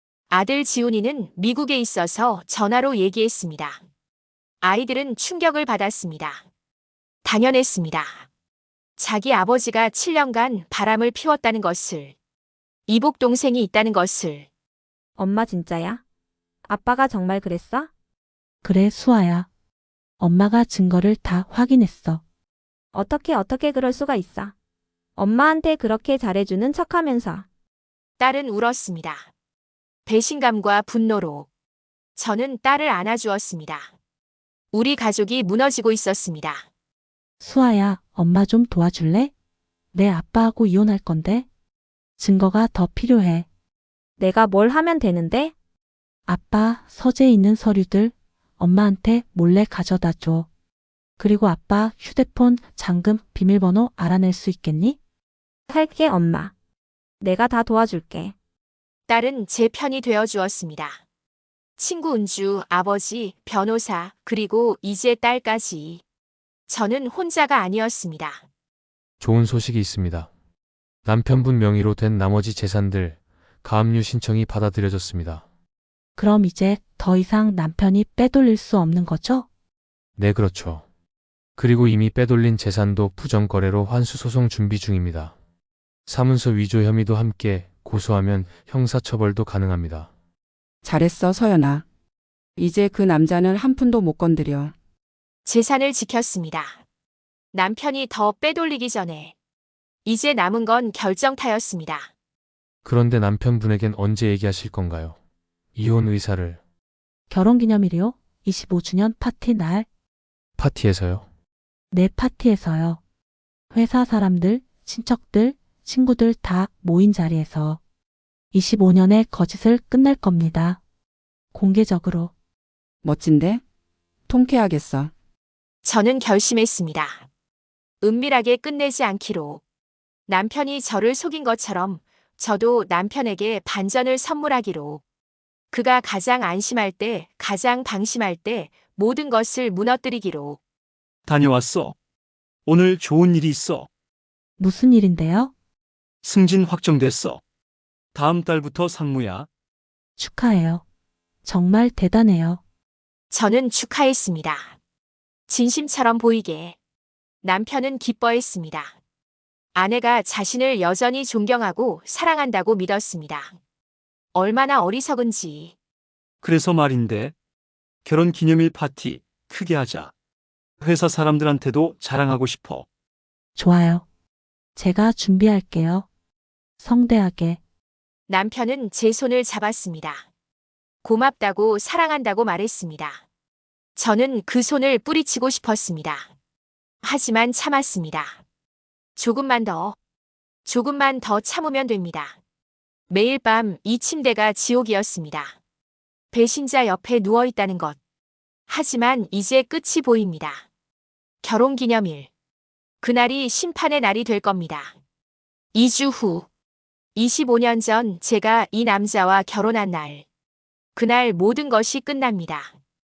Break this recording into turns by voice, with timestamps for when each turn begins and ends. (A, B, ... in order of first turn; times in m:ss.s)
0:00.3-0:03.8 A
0:04.6-0:06.4 A
0:07.2-0:08.2 A
0:09.0-0:12.1 A
0:12.9-0:14.5 A
0:15.2-0:16.0 B
0:16.6-0:17.9 B
0:18.6-0:19.5 C
0:20.2-0:22.2 C
0:22.9-0:24.5 B
0:25.2-0:27.4 B
0:28.2-0:29.3 A
0:30.0-0:31.5 A
0:32.2-0:33.9 A
0:34.7-0:36.7 A
0:37.4-0:39.3 C
0:39.9-0:41.5 C
0:42.2-0:43.4 C
0:44.2-0:45.5 B
0:46.3-0:50.5 C
0:51.2-0:55.0 C
0:55.7-0:56.5 B
0:57.2-0:58.3 B
0:59.1-1:01.0 A
1:01.8-1:06.0 A
1:06.7-1:08.4 A
1:09.2-1:10.3 D
1:11.0-1:15.4 D
1:16.2-1:19.5 C
1:20.2-1:20.8 D
1:21.6-1:25.3 D
1:26.1-1:30.1 D
1:30.8-1:31.8 E
1:32.6-1:34.7 E
1:35.4-1:36.8 A
1:37.5-1:39.3 A
1:40.0-1:42.1 A
1:42.8-1:45.2 D
1:45.7-1:46.6 D
1:47.3-1:49.9 C
1:50.6-1:51.2 D
1:51.9-1:53.0 C
1:53.7-1:57.8 C
1:58.5-2:00.8 C
2:01.5-2:02.3 C
2:03.0-2:03.6 E
2:04.3-2:05.1 E
2:05.8-2:07.2 A
2:08.0-2:09.6 A
2:10.3-2:15.0 A
2:15.7-2:20.6 A
2:21.2-2:22.0 F
2:22.6-2:23.9 F
2:24.6-2:25.5 C
2:26.2-2:27.4 F
2:28.1-2:29.5 F
2:30.2-2:30.8 C
2:31.4-2:32.6 C
2:33.3-2:34.8 A
2:35.5-2:36.8 A
2:37.4-2:38.9 A
2:39.7-2:43.6 A
2:44.3-2:45.7 A
2:46.4-2:47.3 F
2:48.0-2:50.1 F
2:50.8-2:52.8 F
2:53.6-2:54.0 C
2:54.8-2:56.0 C
2:56.8-2:57.6 C
2:58.3-3:00.2 A
3:01.0-3:03.2 A
3:04.0-3:06.3 A
3:07.0-3:08.4 A
3:09.2-3:10.0 A
3:10.6-3:12.4 A
3:13.1-3:15.6 A
3:16.3-3:18.0 A
3:18.7-3:20.6 A
3:21.4-3:22.3 A
3:23.0-3:25.0 A
3:25.7-3:26.5 A
3:27.1-3:30.2 A
3:30.9-3:32.7 A